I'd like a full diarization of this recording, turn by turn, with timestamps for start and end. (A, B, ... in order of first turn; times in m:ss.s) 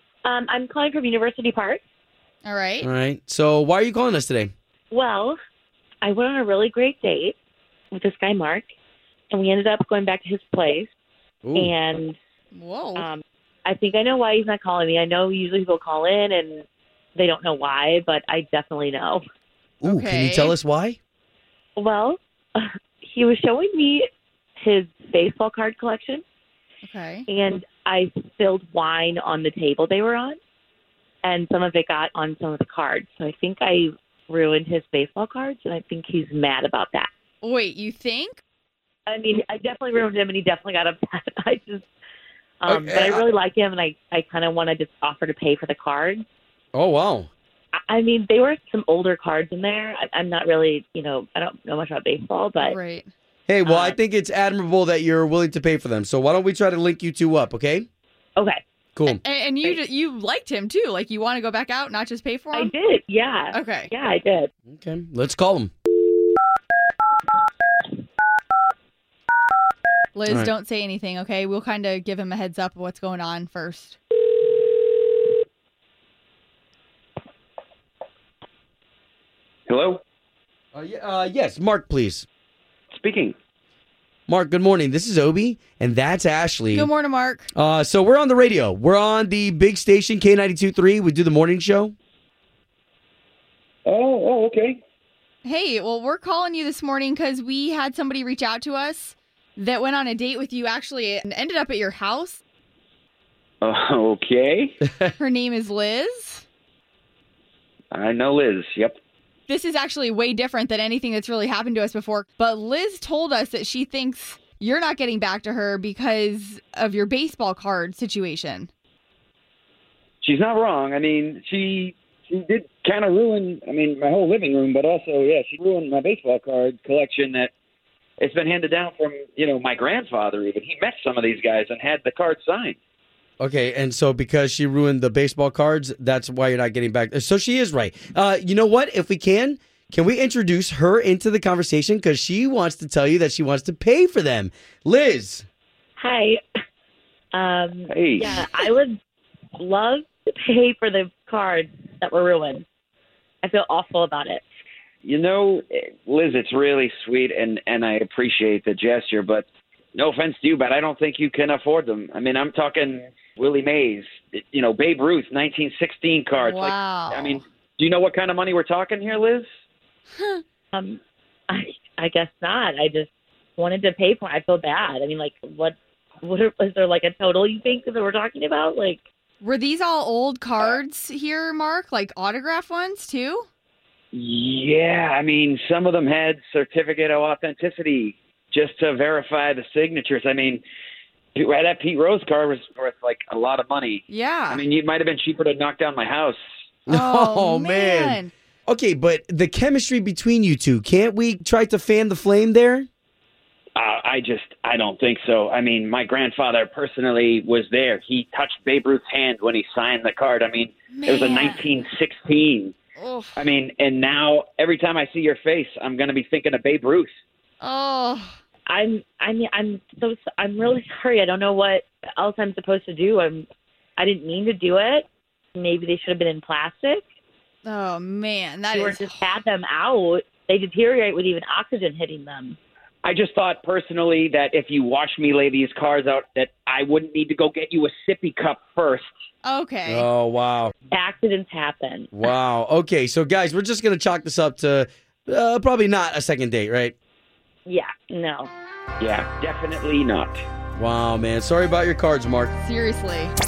0:00.2-0:01.8 A
0:02.4-0:02.9 B
0:02.8-0:04.5 C
0:04.9-0:05.4 A
0:06.0-0:07.4 A
0:07.9-0:08.7 A
0:09.3-0:10.9 A
0:11.4-0:11.7 C
0:11.6-0:12.2 A
0:12.5-0:13.1 B
0:13.0-0:16.6 A
0:17.2-0:19.2 A
0:19.8-0:21.0 C
0:19.8-0:20.5 B
0:21.8-0:24.0 A
0:24.6-0:26.2 A
0:26.8-0:27.2 B
0:27.3-0:30.4 A
0:31.2-0:37.1 A
0:37.4-0:38.4 B
0:39.1-0:41.8 A
0:42.6-0:46.2 A
0:42.7-0:43.2 C
0:46.7-0:47.3 C
0:47.8-0:52.8 A
0:52.6-0:53.1 B
0:53.5-0:57.9 C
0:53.6-0:54.0 A
0:59.0-0:59.2 C
0:59.0-1:02.7 B
1:02.5-1:04.5 A
1:03.5-1:03.9 B
1:04.7-1:05.7 C
1:10.1-1:14.0 B
1:19.7-1:20.0 D
1:20.7-1:22.2 C
1:22.9-1:23.4 D
1:24.3-1:26.9 C
1:26.7-1:27.5 B
1:27.5-1:31.9 C
1:33.8-1:34.8 D
1:35.4-1:42.4 B
1:43.6-1:44.8 D
1:45.2-1:46.4 B
1:47.9-1:49.0 D
1:49.5-1:58.7 B
2:00.2-2:07.5 D
2:08.2-2:12.8 D
2:13.4-2:25.4 C
2:26.0-2:26.4 A
2:27.3-2:28.9 A
2:27.9-2:28.4 D
2:29.6-2:32.6 A
2:33.4-2:34.4 A
2:35.0-2:49.4 D
2:46.4-2:47.4 B
2:50.2-2:50.4 B
2:50.7-2:59.0 A
2:59.4-3:03.4 B
3:04.1-3:10.6 D
3:11.3-3:16.4 D
3:14.1-3:14.6 B
3:16.9-3:18.2 C
3:16.9-3:18.3 B
3:18.7-3:22.9 C
3:23.8-3:32.7 D
3:30.9-3:31.7 B
3:33.0-3:33.4 B
3:33.4-3:37.1 D
3:37.6-3:38.4 B
3:38.7-3:43.4 A
3:44.0-3:47.0 A
3:47.6-3:49.3 B
3:48.7-3:52.6 A
3:53.0-3:59.1 D
3:59.4-4:00.1 B
3:59.9-4:00.7 C
4:00.9-4:02.1 A
4:02.1-4:06.9 C
4:07.6-4:08.5 A
4:09.0-4:10.4 D
4:10.8-4:12.5 C
4:12.6-4:13.3 B